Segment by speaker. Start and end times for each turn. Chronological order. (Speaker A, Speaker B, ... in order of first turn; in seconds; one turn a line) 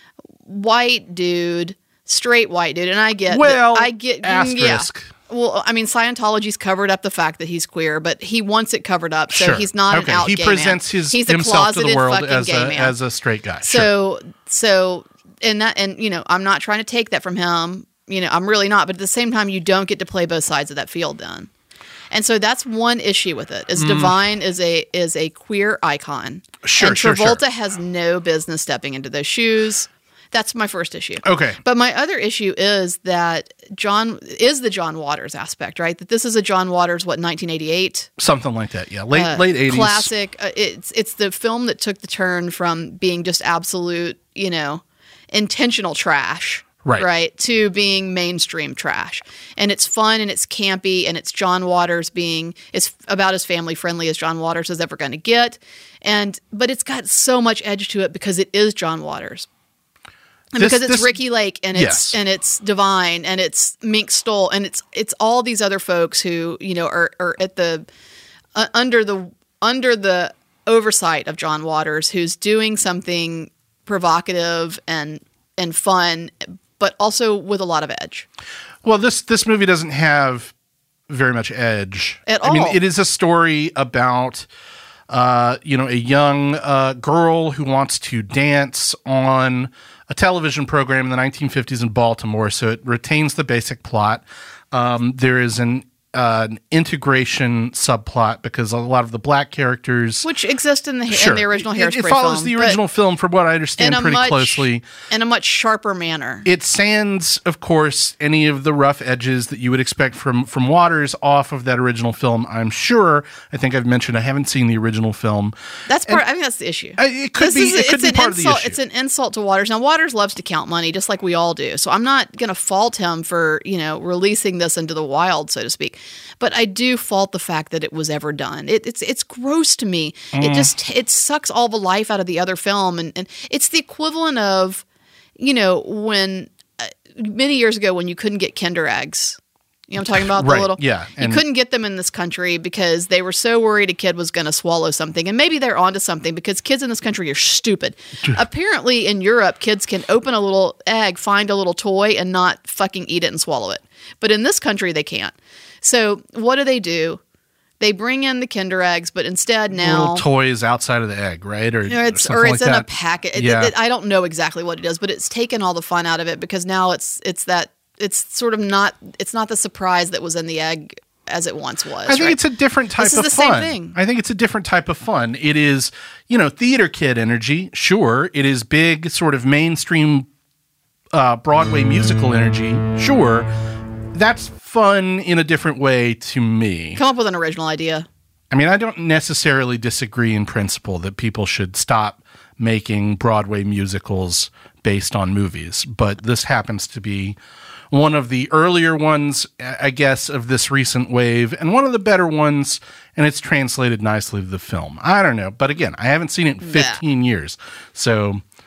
Speaker A: 0.4-12.9
Speaker B: 3.3-5.1
Speaker B: 9.3-13.9
Speaker A: 13.6-21.5
Speaker A: 22.1-38.1
Speaker B: 23.7-24.1
Speaker B: 26.6-27.4
Speaker B: 31.2-31.6
Speaker B: 38.2-40.1
Speaker A: 39.1-59.5
Speaker A: 60.5-67.8
Speaker B: 60.6-61.2
Speaker B: 61.7-62.2
Speaker A: 68.5-78.2
Speaker B: 78.8-80.5
Speaker B: 81.1-84.5
Speaker A: 82.3-82.8
Speaker B: 85.1-100.3
Speaker A: 100.2-102.8
Speaker B: 101.1-104.8
Speaker A: 103.8-106.5
Speaker B: 106.4-115.5
Speaker A: 115.9-134.8
Speaker B: 117.0-118.8
Speaker B: 130.3-130.7
Speaker A: 135.4-157.2
Speaker B: 140.1-141.4
Speaker A: 157.8-160.2
Speaker B: 159.7-163.7
Speaker A: 161.9-172.4
Speaker B: 172.1-180.3
Speaker A: 173.0-173.9
Speaker B: 181.1-183.5
Speaker B: 184.1-187.0
Speaker A: 186.9-188.1
Speaker B: 188.5-197.4
Speaker B: 197.9-208.4
Speaker A: 206.6-207.0